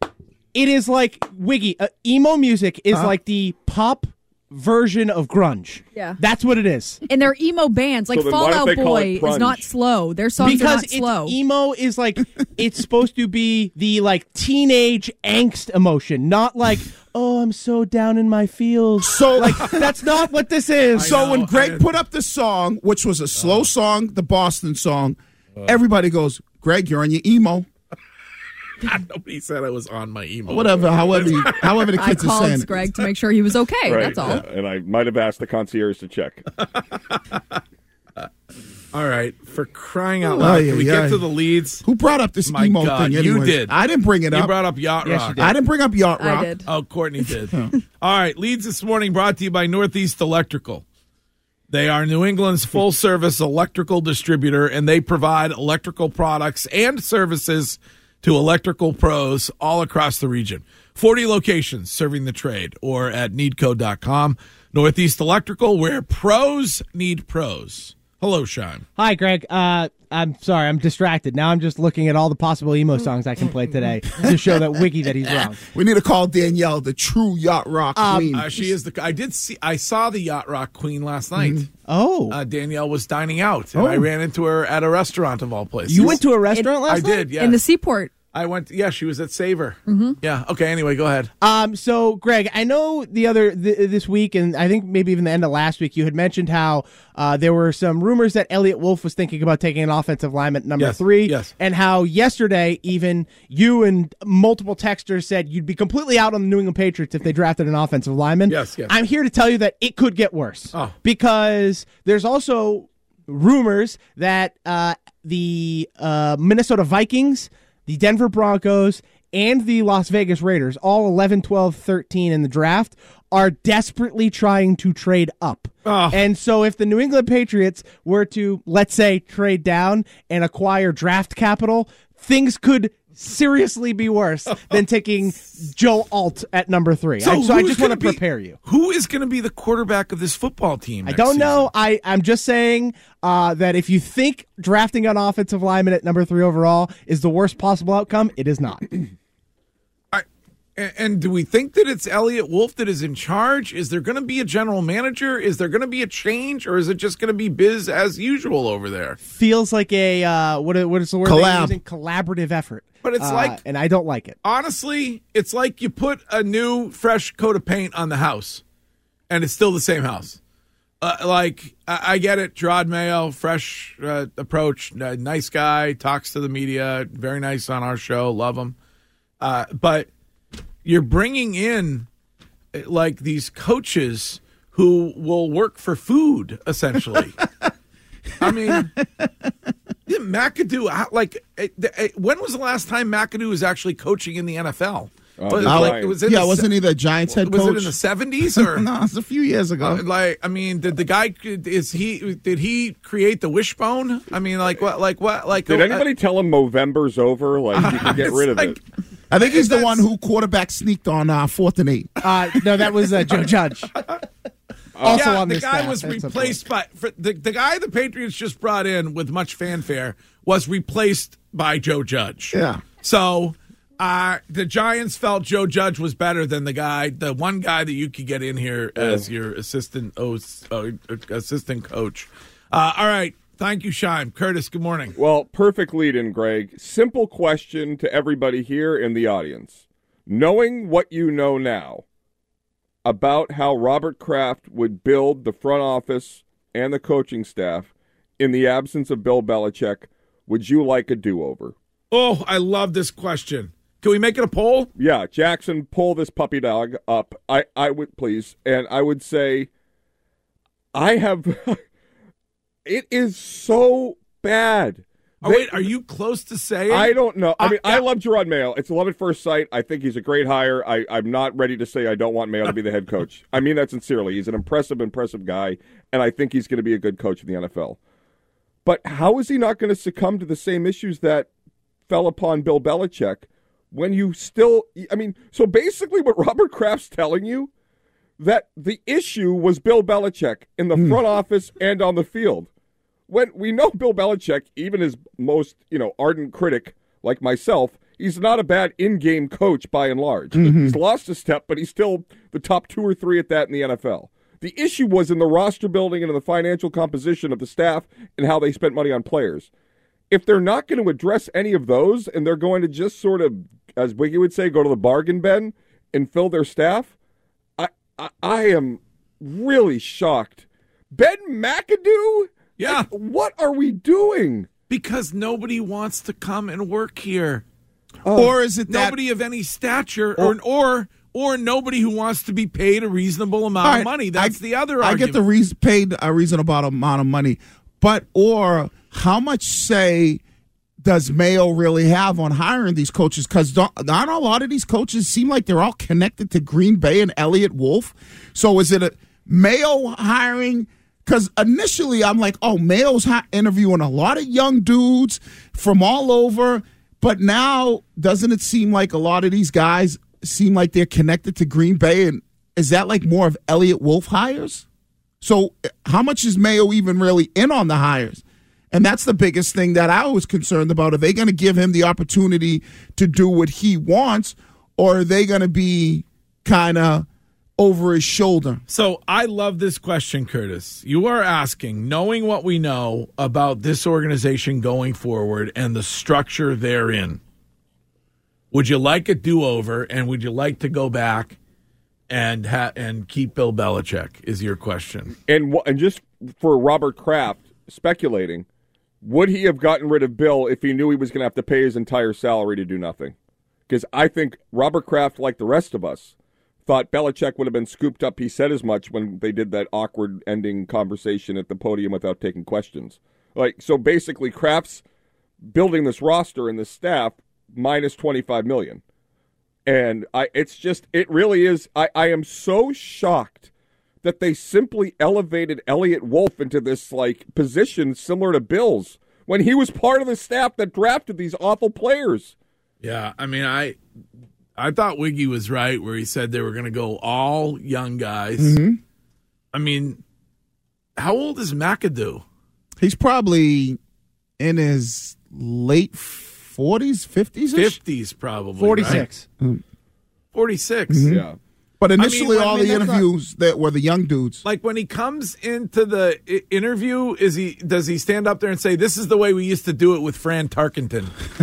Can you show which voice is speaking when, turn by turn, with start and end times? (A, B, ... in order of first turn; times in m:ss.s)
0:00.5-0:07.0 A
0:07.1-0:11.4 B
0:08.1-0:09.7 C
0:10.4-0:21.2 A
0:19.0-0:19.9 D
0:20.9-0:21.9 E
0:21.0-0:27.7 D
0:23.4-0:23.7 E
0:28.8-0:32.2 E
0:30.5-0:32.8 D
0:32.0-0:34.4 B
0:33.9-0:36.4 C
0:36.6-0:37.6 E
0:38.9-0:41.8 E
0:40.4-0:41.2 D
0:41.8-0:44.6 D
0:42.5-0:43.8 E
0:44.3-0:45.4 E
0:45.0-0:45.6 A
0:45.4-0:46.6 D
0:46.2-0:46.7 B
0:46.7-0:50.8 E
0:51.7-1:08.8 E
1:09.0-1:15.6 A
1:14.2-1:14.5 D
1:15.7-1:18.5 D
1:18.0-1:18.4 A
1:18.3-1:21.7 E
1:21.4-1:21.7 D
1:21.9-1:22.4 A
1:22.3-1:26.3 E
1:23.8-1:24.1 D
1:25.9-1:27.2 A
1:26.5-1:28.1 B
1:26.9-1:27.6 E
1:28.3-1:31.3 E
1:29.9-1:30.2 B
1:31.4-2:18.6 A
1:40.8-1:41.5 E
1:48.5-1:49.0 E
2:05.8-2:06.2 E
2:17.2-2:21.7 E
2:21.0-2:29.0 A
2:30.8-2:39.2 E
2:39.2-2:44.4 A
2:41.2-2:41.8 D
2:43.0-2:43.6 E
2:44.4-2:48.6 E
2:49.3-2:50.4 E
2:51.0-2:58.8 E
2:59.4-3:00.1 E
3:00.8-3:02.1 E
3:02.7-3:07.4 E
3:08.4-3:09.0 E
3:08.4-3:09.3 D
3:10.1-3:16.7 E
3:15.4-3:16.2 C
3:15.6-3:20.0 D
3:17.3-3:18.9 E
3:19.8-3:26.1 E
3:25.7-3:28.8 C
3:27.7-3:28.8 E
3:29.3-3:32.1 D
3:29.4-3:30.0 E
3:32.2-3:33.9 A
3:34.0-3:34.2 E
3:35.0-3:35.3 C
3:35.0-3:55.2 E
3:35.0-3:36.6 A
3:42.5-3:42.8 D
3:49.0-3:49.2 C
3:55.2-4:02.0 C
4:03.0-4:11.8 C
4:12.1-4:14.9 E
4:15.0-4:19.7 C
4:20.9-4:21.8 C
4:22.8-4:25.9 C
4:25.4-4:28.1 E
4:26.9-4:38.0 C
4:38.8-4:41.5 C
4:42.1-4:47.7 C
4:48.4-4:52.7 C
4:50.9-4:51.2 D
4:53.3-5:09.7 C
5:00.5-5:01.0 D
5:10.3-5:17.1 C
5:17.8-5:24.7 C
5:22.8-5:23.1 E
5:24.9-5:27.6 E
5:28.2-5:28.5 C
5:28.3-5:29.2 D
5:28.9-5:35.4 E
5:33.8-5:40.4 D
5:41.0-6:04.8 D
6:05.4-6:17.3 D
6:17.8-6:18.8 D
6:18.9-6:27.4 E
6:28.7-6:31.6 E
6:32.3-6:35.4 E
6:35.5-6:38.6 C
6:39.2-6:43.4 C
6:43.9-6:46.3 C
6:46.9-6:55.0 C
6:55.7-6:59.0 C
6:59.9-7:03.7 C
7:04.2-7:12.5 C
7:13.0-7:14.0 E
7:14.8-7:18.8 E
7:18.6-7:19.0 D
7:19.7-7:20.2 E
7:21.2-7:22.4 E
7:23.0-7:24.0 D
7:24.6-7:28.0 D
7:27.7-7:29.2 E
7:28.8-7:29.4 A
7:29.0-7:29.8 D
7:30.5-7:31.3 E
7:31.1-7:31.5 D
7:31.3-7:31.6 C
7:32.0-7:34.6 D
7:32.2-7:33.0 E
7:32.5-7:33.2 A
7:34.6-7:41.4 E